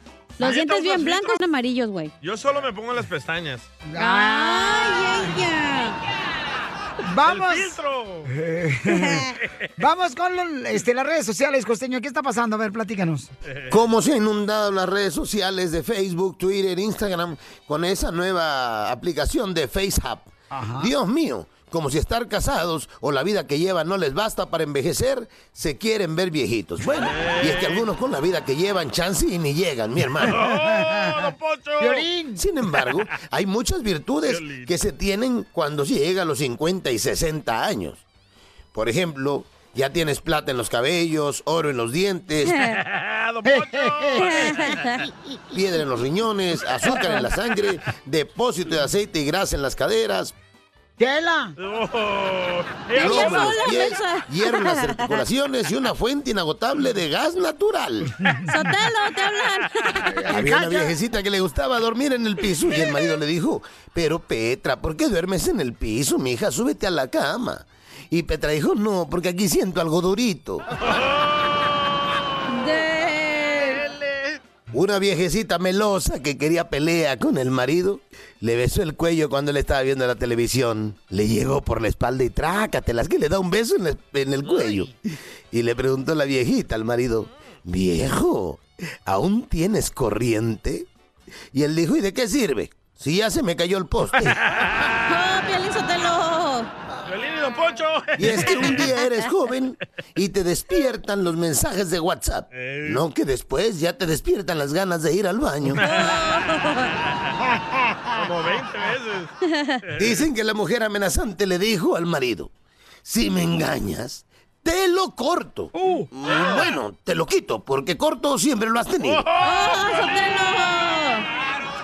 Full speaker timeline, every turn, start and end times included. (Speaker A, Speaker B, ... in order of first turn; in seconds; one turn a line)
Speaker A: 0.4-2.1
Speaker B: 0.4-1.4
Speaker B: 2.2-3.7
Speaker C: 3.9-5.4
Speaker A: 4.0-6.0
Speaker C: 7.0-7.8
Speaker B: 7.2-8.3
Speaker C: 8.3-9.2
Speaker A: 8.9-9.4
Speaker C: 9.8-13.3
Speaker D: 13.7-30.4
Speaker C: 20.5-20.9
Speaker B: 27.0-27.8
Speaker B: 30.2-32.1
Speaker C: 30.7-31.2
Speaker C: 31.8-32.4
Speaker D: 32.4-38.0
Speaker B: 34.2-34.7
Speaker D: 38.7-42.7
Speaker B: 42.8-44.8
Speaker C: 43.4-44.8
Speaker A: 44.3-45.1
Speaker D: 45.5-50.3
Speaker A: 46.9-47.2
Speaker C: 51.0-51.6
Speaker B: 51.6-53.5
Speaker A: 53.0-55.2
Speaker D: 53.0-58.1
Speaker A: 58.5-60.1
Speaker C: 60.0-60.9
Speaker D: 60.3-70.7
Speaker B: 70.8-71.3
Speaker A: 72.5-73.8
Speaker B: 73.6-74.4
Speaker D: 74.7-84.9
Speaker B: 84.5-84.9
Speaker D: 85.5-90.9
Speaker D: 91.5-94.4
Speaker B: 94.3-95.1
Speaker A: 95.1-96.7
Speaker B: 97.1-98.9
Speaker D: 98.2-105.8
Speaker B: 102.5-103.0
Speaker B: 105.8-106.2
Speaker A: 105.8-106.9
Speaker C: 107.8-108.2
Speaker B: 108.2-109.3
Speaker A: 109.5-109.8
Speaker B: 109.9-110.2
Speaker D: 110.0-112.5
Speaker D: 113.0-119.3
Speaker C: 115.8-116.1
Speaker B: 116.3-116.6
Speaker B: 119.0-120.2
Speaker A: 119.4-121.3